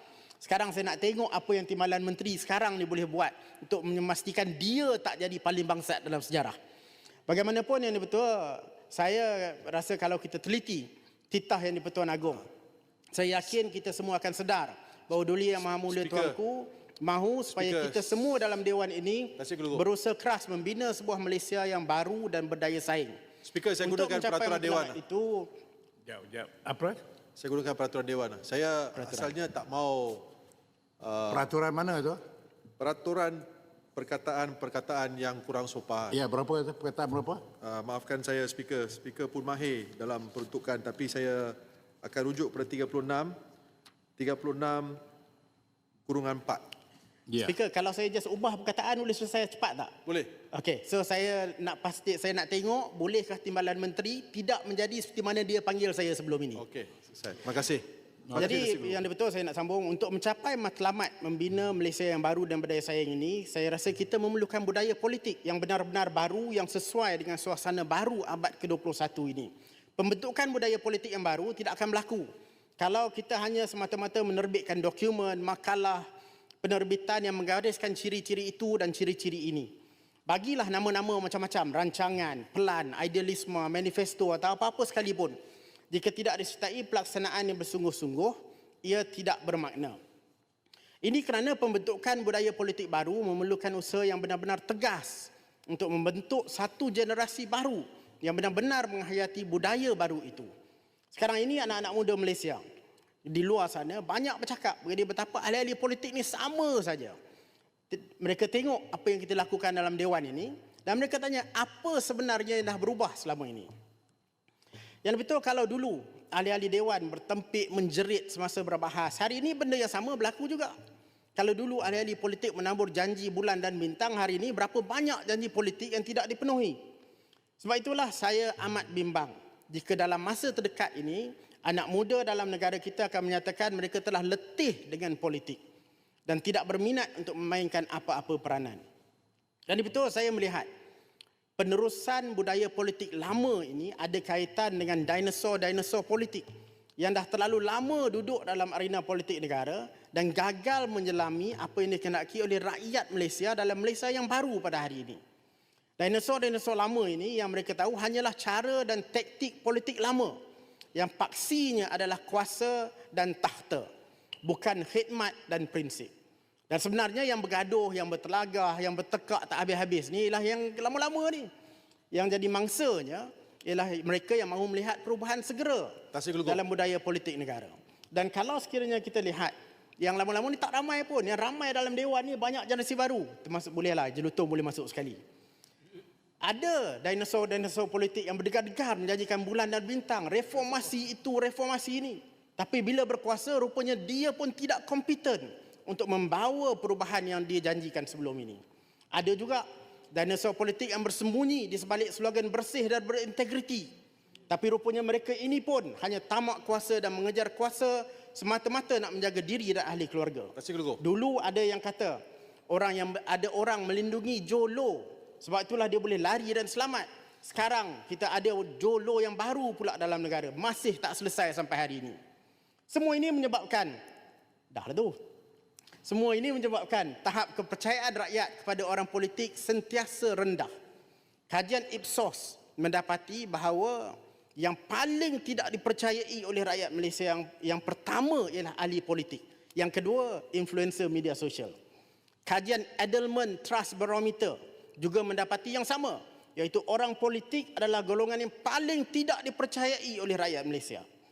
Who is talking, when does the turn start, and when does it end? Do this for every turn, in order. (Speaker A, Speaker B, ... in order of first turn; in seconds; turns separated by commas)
Speaker A: 0.4-6.5, Speaker A: 7.3-12.5, Speaker A: 13.1-23.2, Speaker B: 15.9-16.4, Speaker B: 17.5-18.1, Speaker B: 19.4-19.8, Speaker B: 23.4-25.0, Speaker A: 23.8-25.5, Speaker C: 26.1-27.0, Speaker B: 27.4-30.3, Speaker A: 28.9-29.3, Speaker B: 31.0-31.5, Speaker C: 31.3-32.2, Speaker B: 32.8-33.4, Speaker B: 33.9-36.2, Speaker C: 36.1-37.5, Speaker B: 37.6-43.3, Speaker B: 44.2-45.0, Speaker B: 46.1-46.6, Speaker A: 47.4-49.9, Speaker B: 50.0-50.3, Speaker A: 50.5-56.6, Speaker B: 56.5-59.0, Speaker A: 58.3-72.3, Speaker A: 72.8-76.0, Speaker A: 76.6-79.7, Speaker A: 80.3-85.4, Speaker A: 85.9-90.0, Speaker A: 91.0-100.5, Speaker A: 101.1-102.6, Speaker A: 103.2-107.2, Speaker A: 107.9-113.7, Speaker A: 115.0-120.7, Speaker A: 121.3-126.8, Speaker A: 127.6-135.6, Speaker A: 136.3-138.8, Speaker A: 139.7-140.7, Speaker A: 141.6-146.5, Speaker A: 147.0-155.2, Speaker A: 156.0-160.4, Speaker A: 160.9-163.9, Speaker A: 164.4-166.1, Speaker A: 166.7-171.5, Speaker A: 172.1-185.2, Speaker B: 176.1-176.6, Speaker A: 186.4-203.9, Speaker A: 204.5-222.2, Speaker B: 210.6-211.0, Speaker A: 222.9-223.9, Speaker A: 224.7-225.2, Speaker A: 226.0-230.7, Speaker A: 231.5-241.7, Speaker A: 242.4-251.1